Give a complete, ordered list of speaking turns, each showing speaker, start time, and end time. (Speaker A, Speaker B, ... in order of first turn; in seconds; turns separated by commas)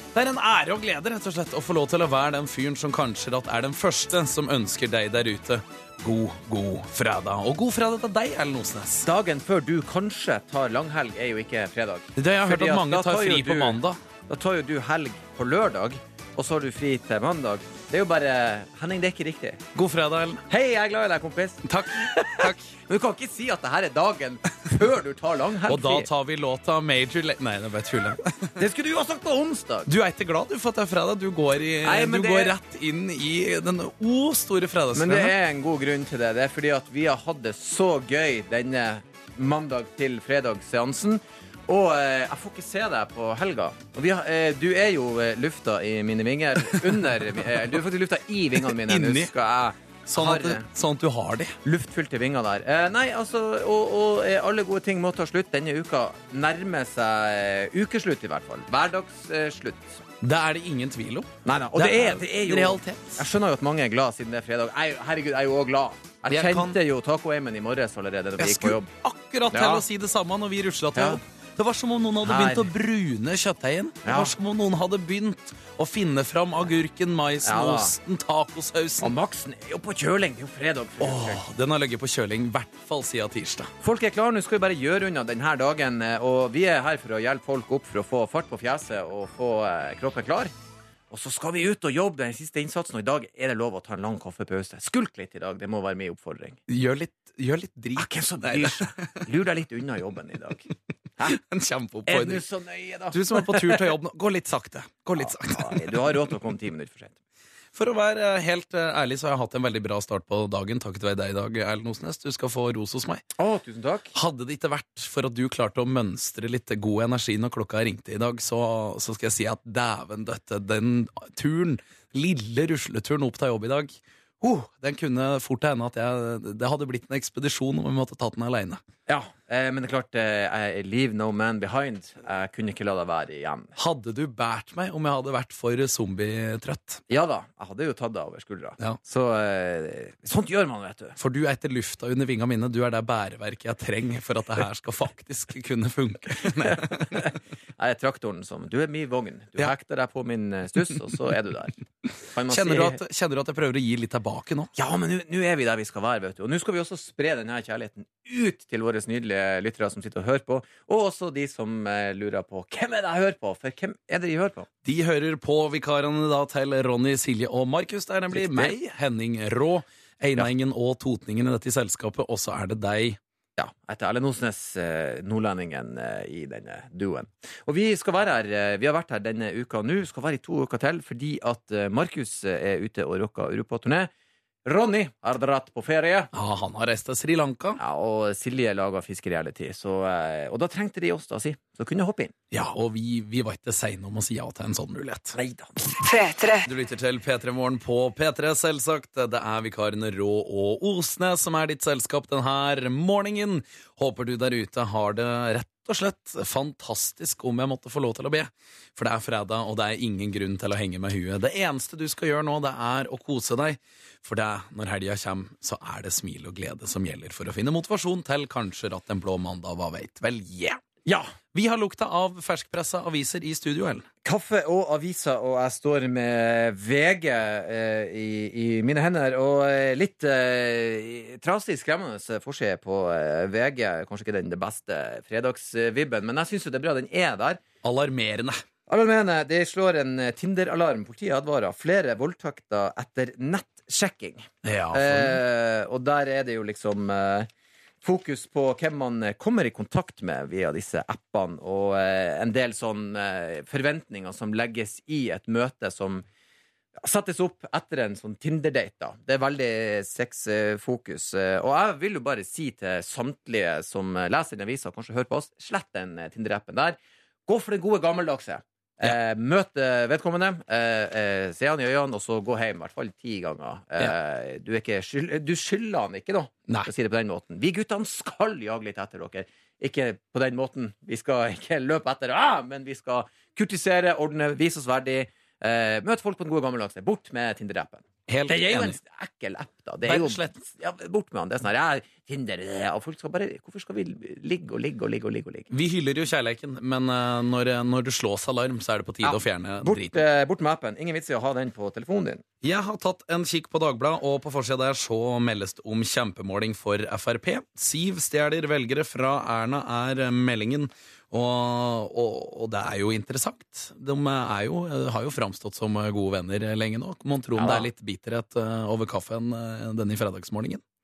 Speaker A: 0.1-9.1, Speaker B: 9.0-19.6, Speaker A: 12.2-14.0, Speaker A: 19.7-20.4, Speaker B: 20.5-26.1, Speaker A: 21.6-22.7, Speaker A: 25.7-28.6, Speaker B: 28.6-29.9, Speaker A: 29.9-35.3, Speaker B: 31.8-32.5, Speaker B: 34.9-50.7, Speaker A: 48.7-49.3, Speaker A: 50.1-51.6, Speaker B: 51.6-60.0, Speaker A: 60.2-63.3, Speaker B: 61.4-68.9, Speaker A: 66.3-66.8, Speaker A: 68.4-79.1, Speaker B: 69.5-69.8, Speaker B: 71.0-71.2, Speaker B: 72.2-72.7, Speaker B: 74.0-74.3, Speaker B: 77.4-77.9, Speaker B: 79.0-81.4, Speaker A: 81.0-83.7, Speaker B: 83.8-90.5, Speaker B: 91.1-96.6, Speaker A: 96.7-99.2, Speaker B: 98.0-100.7, Speaker A: 101.3-102.4, Speaker B: 102.1-103.9, Speaker A: 103.1-106.0, Speaker B: 105.2-107.2, Speaker A: 107.8-113.2, Speaker B: 113.4-114.1, Speaker A: 114.1-128.8, Speaker B: 129.1-133.7, Speaker A: 133.8-137.0, Speaker B: 137.1-141.2, Speaker A: 141.2-147.3, Speaker B: 146.6-153.0, Speaker A: 152.5-154.7, Speaker B: 154.8-164.7, Speaker A: 164.8-173.2, Speaker B: 168.3-168.8, Speaker B: 173.6-184.1, Speaker B: 184.7-186.3, Speaker A: 186.3-187.8, Speaker B: 187.8-192.3, Speaker A: 192.5-195.4, Speaker B: 195.3-196.0, Speaker A: 196.6-220.8, Speaker B: 221.1-221.3, Speaker A: 221.5-224.1, Speaker B: 224.2-237.6, Speaker A: 237.8-238.6, Speaker B: 238.9-247.5, Speaker A: 244.6-245.4, Speaker B: 248.0-256.2, Speaker B: 256.9-295.7, Speaker A: 288.3-289.0, Speaker A: 290.1-290.6, Speaker A: 295.7-300.2, Speaker B: 299.2-302.4, Speaker A: 302.6-320.8, Speaker B: 317.6-317.9